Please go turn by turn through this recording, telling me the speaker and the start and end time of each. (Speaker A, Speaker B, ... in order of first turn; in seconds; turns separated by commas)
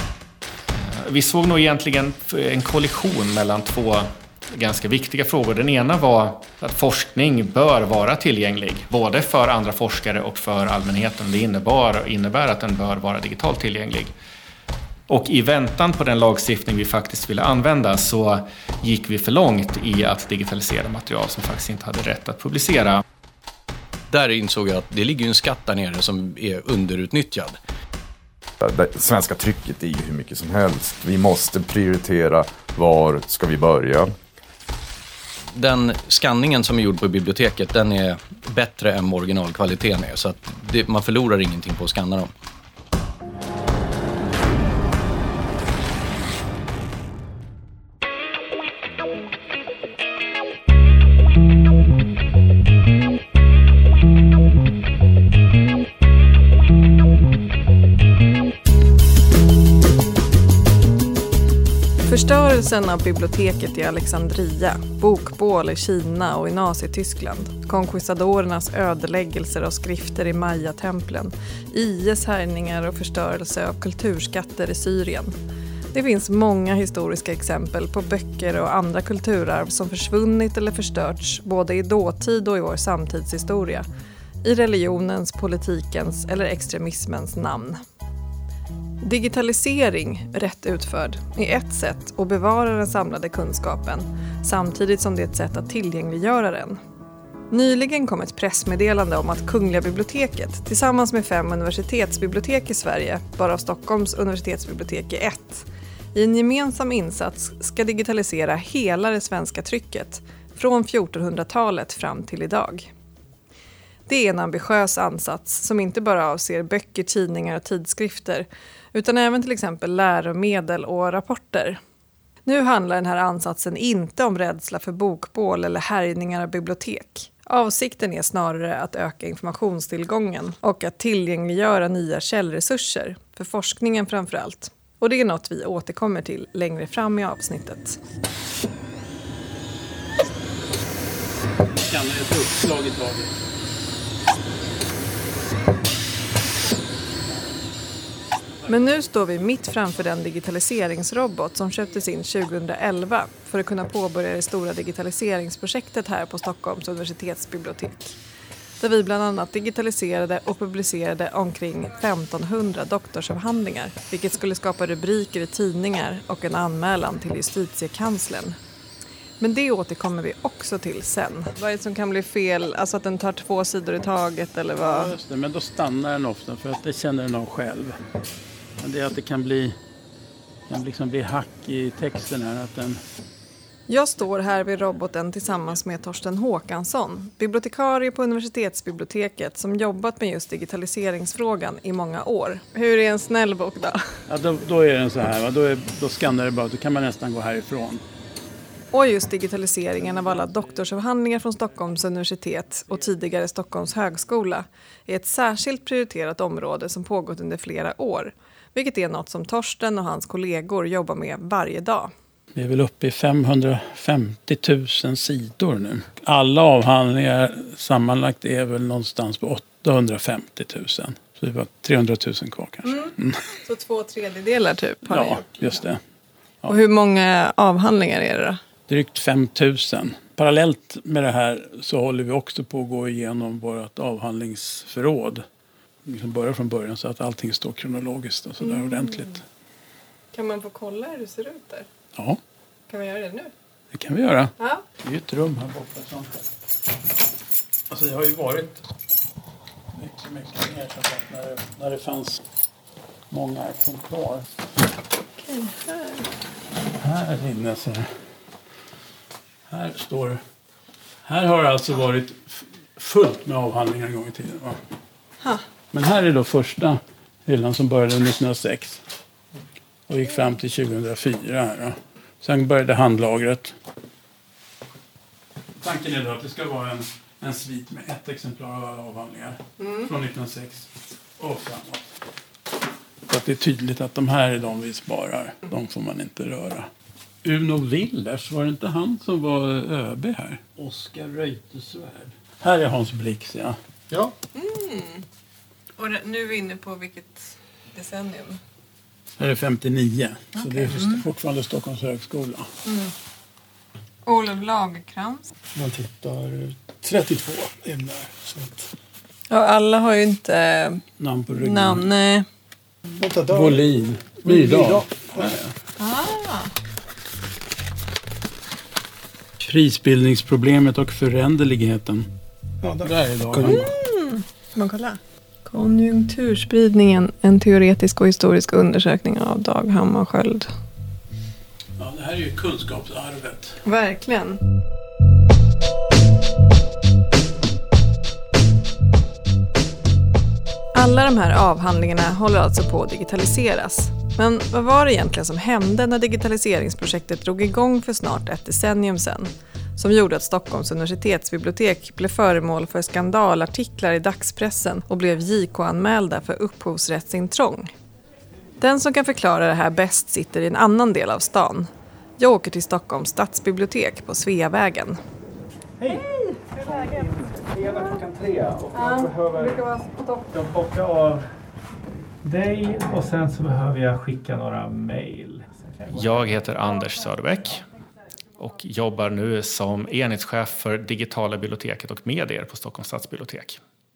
Speaker A: 0.8-14.1, Speaker A: 15.1-23.0, Speaker B: 24.1-27.6, Speaker C: 28.6-34.1, Speaker B: 35.5-42.3, Speaker D: 62.0-75.3, Speaker D: 75.9-83.9, Speaker D: 84.4-87.8, Speaker D: 89.0-96.8, Speaker D: 97.5-112.9, Speaker D: 114.1-121.8, Speaker D: 122.5-138.0, Speaker E: 141.7-143.4, Speaker D: 148.7-158.2, Speaker D: 158.8-168.6, Speaker D: 169.4-175.1, Speaker E: 174.8-178.0, Speaker E: 178.8-179.7, Speaker E: 180.7-183.0, Speaker D: 183.9-194.0, Speaker E: 194.3-198.0, Speaker D: 198.9-212.1, Speaker E: 212.5-223.4, Speaker D: 222.8-225.8, Speaker E: 225.1-226.0, Speaker D: 226.7-228.6, Speaker E: 228.9-235.4, Speaker E: 236.0-239.4, Speaker D: 238.6-239.3, Speaker D: 240.3-241.9, Speaker D: 242.9-243.5, Speaker E: 243.9-246.4, Speaker E: 247.9-248.8, Speaker E: 249.9-252.4, Speaker E: 253.3-254.5, Speaker D: 255.4-256.2, Speaker E: 257.0-258.1, Speaker E: 259.7-260.4, Speaker E: 261.2-264.8, Speaker E: 265.9-269.0, Speaker E: 270.1-273.7, Speaker E: 275.8-282.1, Speaker D: 279.8-280.1, Speaker E: 283.3-286.9, Speaker E: 287.4-293.8, Speaker D: 294.5-295.2, Speaker D: 296.0-298.6, Speaker E: 299.4-302.7, Speaker D: 300.6-301.2, Speaker D: 302.9-303.1, Speaker D: 304.2-305.5, Speaker E: 307.0-308.3, Speaker D: 309.5-312.5, Speaker E: 311.2-312.1, Speaker E: 313.4-315.7, Speaker D: 316.0-316.7, Speaker E: 319.6-322.3, Speaker E: 323.0-323.9, Speaker D: 323.6-330.7, Speaker E: 332.0-333.8, Speaker D: 333.9-334.6, Speaker D: 340.9-357.9, Speaker D: 358.8-365.2, Speaker A: 366.0-369.8, Speaker D: 368.9-370.5, Speaker A: 370.5-371.5, Speaker A: 372.4-377.9, Speaker A: 378.6-383.8